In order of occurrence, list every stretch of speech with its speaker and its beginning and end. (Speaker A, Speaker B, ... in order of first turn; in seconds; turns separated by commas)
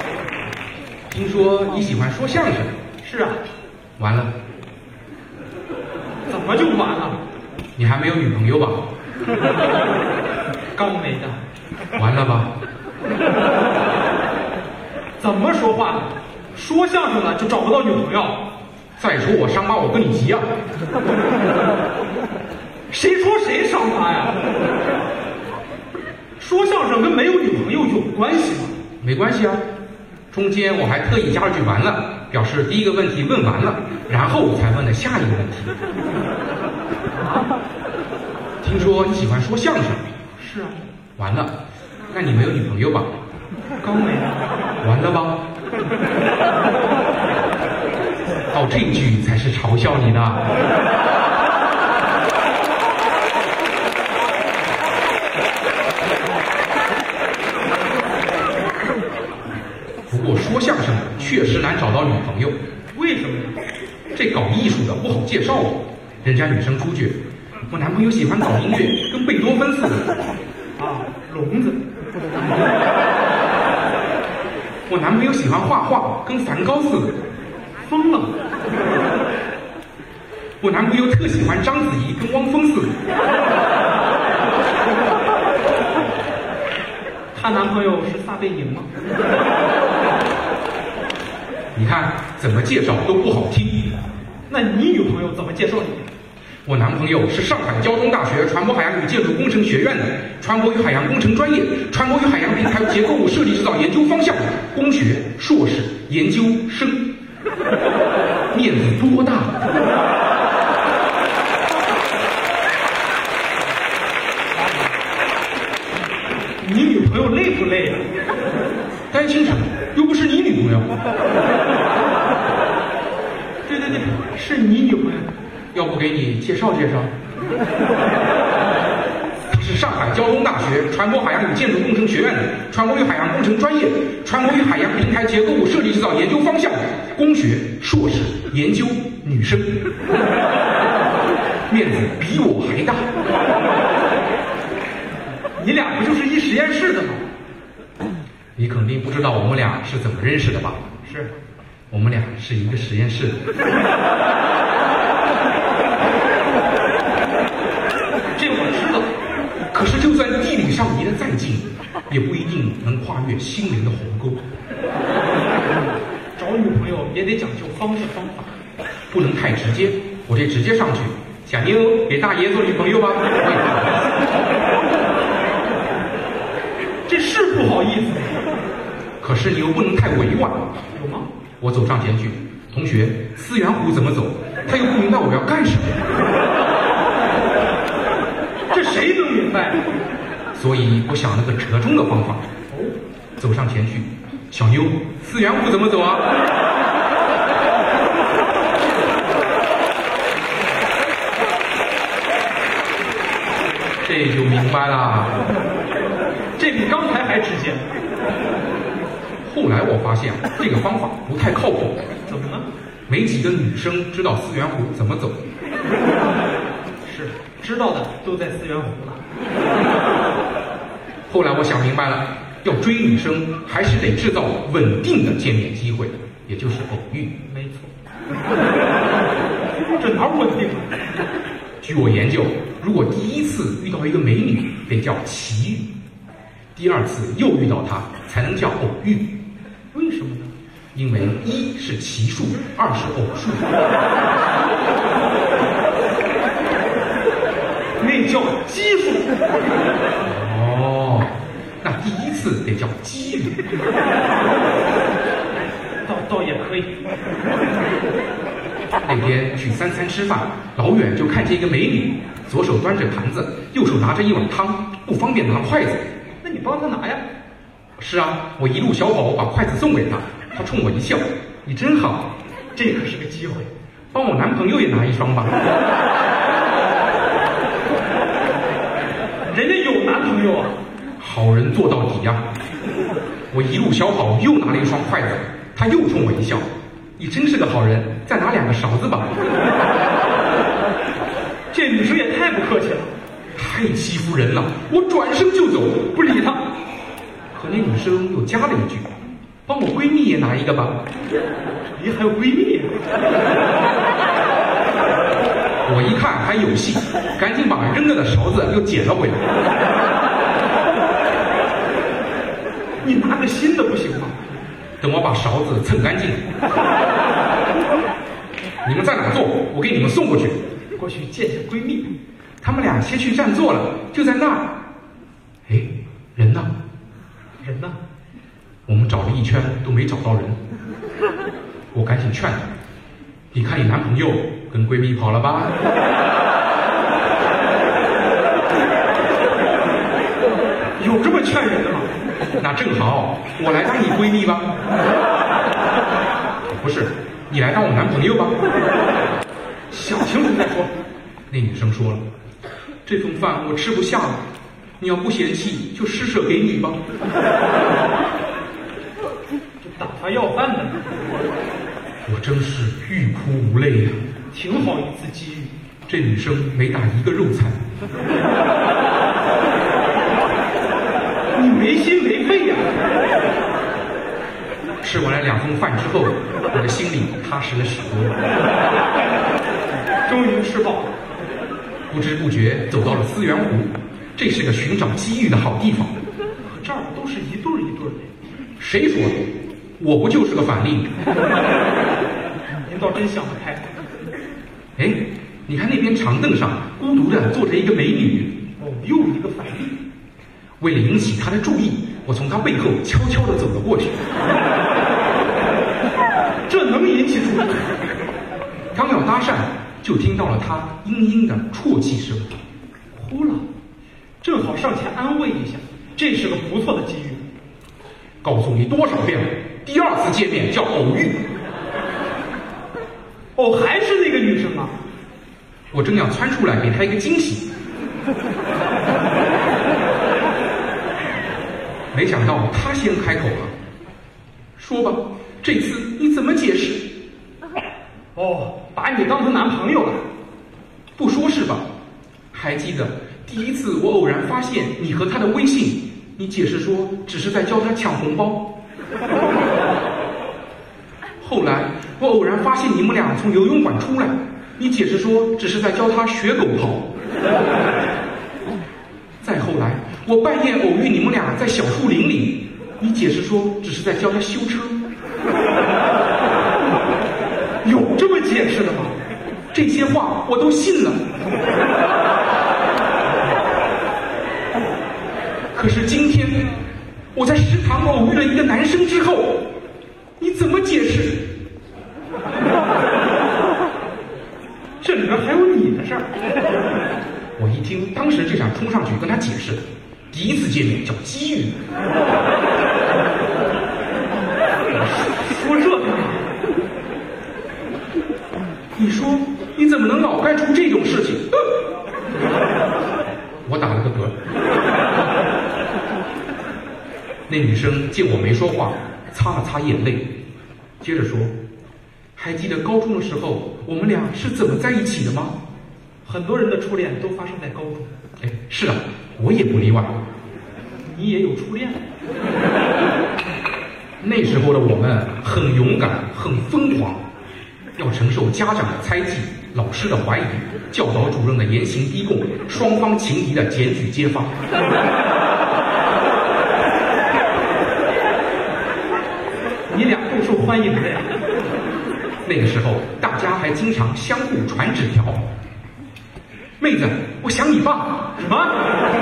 Speaker A: 1.1-2.7, Speaker B: 3.0-3.4, Speaker A: 4.0-4.3, Speaker B: 6.3-7.2, Speaker A: 7.8-8.9, Speaker B: 10.8-11.4, Speaker A: 11.9-12.5, Speaker B: 15.2-18.5, Speaker A: 19.0-20.5, Speaker B: 22.9-24.4, Speaker B: 26.4-28.8, Speaker A: 29.0-29.7, Speaker A: 30.3-35.8, Speaker B: 37.1-37.5, Speaker A: 38.6-40.1, Speaker B: 40.4-40.8, Speaker A: 41.2-41.6, Speaker A: 42.1-43.1, Speaker B: 43.8-44.5, Speaker A: 44.8-45.4, Speaker A: 48.5-50.4, Speaker A: 60.1-62.6, Speaker B: 62.9-63.6, Speaker A: 64.1-70.1, Speaker B: 70.8-71.8, Speaker A: 74.9-77.2, Speaker B: 77.8-78.4, Speaker A: 80.6-83.0, Speaker B: 87.3-88.9, Speaker A: 91.7-93.9, Speaker B: 94.5-96.1, Speaker A: 96.7-107.1, Speaker A: 108.5-109.5, Speaker B: 116.6-118.0, Speaker A: 119.1-121.1, Speaker B: 123.7-125.3, Speaker A: 125.7-127.1, Speaker A: 129.5-139.9, Speaker A: 141.7-143.1, Speaker B: 145.6-147.2, Speaker A: 148.6-150.8, Speaker B: 151.0-151.3, Speaker A: 151.9-153.4, Speaker B: 158.3-159.2, Speaker A: 159.7-164.4, Speaker B: 166.3-168.5, Speaker A: 169.1-174.1, Speaker B: 177.1-178.4, Speaker A: 179.2-180.7, Speaker B: 180.9-181.3, Speaker A: 181.6-186.0, Speaker B: 188.7-189.8, Speaker A: 190.5-192.4, Speaker B: 192.7-192.9, Speaker A: 193.4-196.3, Speaker A: 204.0-205.4, Speaker B: 206.6-207.9, Speaker A: 209.4-212.0, Speaker B: 212.3-212.7, Speaker A: 213.1-215.4, Speaker B: 217.0-219.2, Speaker A: 221.3-227.3, Speaker B: 227.4-227.9, Speaker B: 229.9-230.9, Speaker A: 231.8-235.9, Speaker A: 236.8-239.3, Speaker B: 239.9-240.5, Speaker A: 240.9-243.7, Speaker B: 248.0-249.3, Speaker A: 250.2-253.6, Speaker B: 256.1-256.9, Speaker A: 259.1-266.0, Speaker B: 266.4-267.2, Speaker A: 268.0-272.3, Speaker B: 272.8-273.7, Speaker A: 274.1-275.6, Speaker B: 279.4-280.8, Speaker A: 281.2-282.4, Speaker A: 283.5-289.3, Speaker B: 291.7-293.1, Speaker A: 293.6-296.1, Speaker B: 296.1-296.7, Speaker A: 297.5-299.1, Speaker A: 299.7-301.0, Speaker B: 301.9-302.9, Speaker A: 305.8-309.4, Speaker B: 313.0-314.4, Speaker A: 315.0-316.4, Speaker A: 318.8-320.6, Speaker B: 321.0-322.1, Speaker A: 322.6-324.7, Speaker A: 325.7-326.7, Speaker B: 327.6-328.0, Speaker A: 328.9-330.6, Speaker A: 331.9-332.6, Speaker A: 333.5-335.7, Speaker B: 341.0-342.1, Speaker A: 342.6-344.7, Speaker A: 346.7-348.6, Speaker B: 349.9-350.9, Speaker A: 351.5-352.2, Speaker A: 353.1-354.4, Speaker A: 355.0-357.0, Speaker B: 359.8-361.0, Speaker A: 362.2-364.2, Speaker B: 364.5-365.7, Speaker A: 366.1-367.8, Speaker B: 371.6-373.0, Speaker A: 375.0-378.4, Speaker B: 380.1-381.1, Speaker A: 382.1-386.1, Speaker B: 386.6-388.3, Speaker A: 388.8-391.1, Speaker B: 392.8-393.9, Speaker A: 395.0-398.6, Speaker B: 398.8-400.0, Speaker A: 400.8-404.2, Speaker B: 406.7-408.0, Speaker A: 408.9-412.6, Speaker B: 413.1-413.6, Speaker B: 414.4-417.4, Speaker A: 418.4-421.4, Speaker B: 423.6-425.0, Speaker A: 425.9-427.7, Speaker A: 432.1-433.7, Speaker A: 434.8-437.1, Speaker B: 438.4-440.2, Speaker A: 441.2-441.9, Speaker A: 442.5-448.7, Speaker A: 451.4-457.1, Speaker A: 459.4-465.0, Speaker B: 467.8-469.2, Speaker A: 469.7-471.2, Speaker A: 475.7-476.7, Speaker A: 477.3-479.7, Speaker A: 480.4-481.5, Speaker B: 485.0-486.3, Speaker A: 487.6-491.8, Speaker B: 494.9-496.5, Speaker A: 498.9-501.5, Speaker A: 503.6-504.3, Speaker A: 507.5-510.3, Speaker A: 511.0-511.5, Speaker A: 512.4-515.6, Speaker B: 516.2-518.1, Speaker A: 518.4-520.2, Speaker B: 521.0-522.0, Speaker A: 524.2-527.2, Speaker A: 528.0-534.5, Speaker B: 539.9-541.3, Speaker A: 542.5-545.5, Speaker A: 546.8-548.3, Speaker B: 548.4-548.8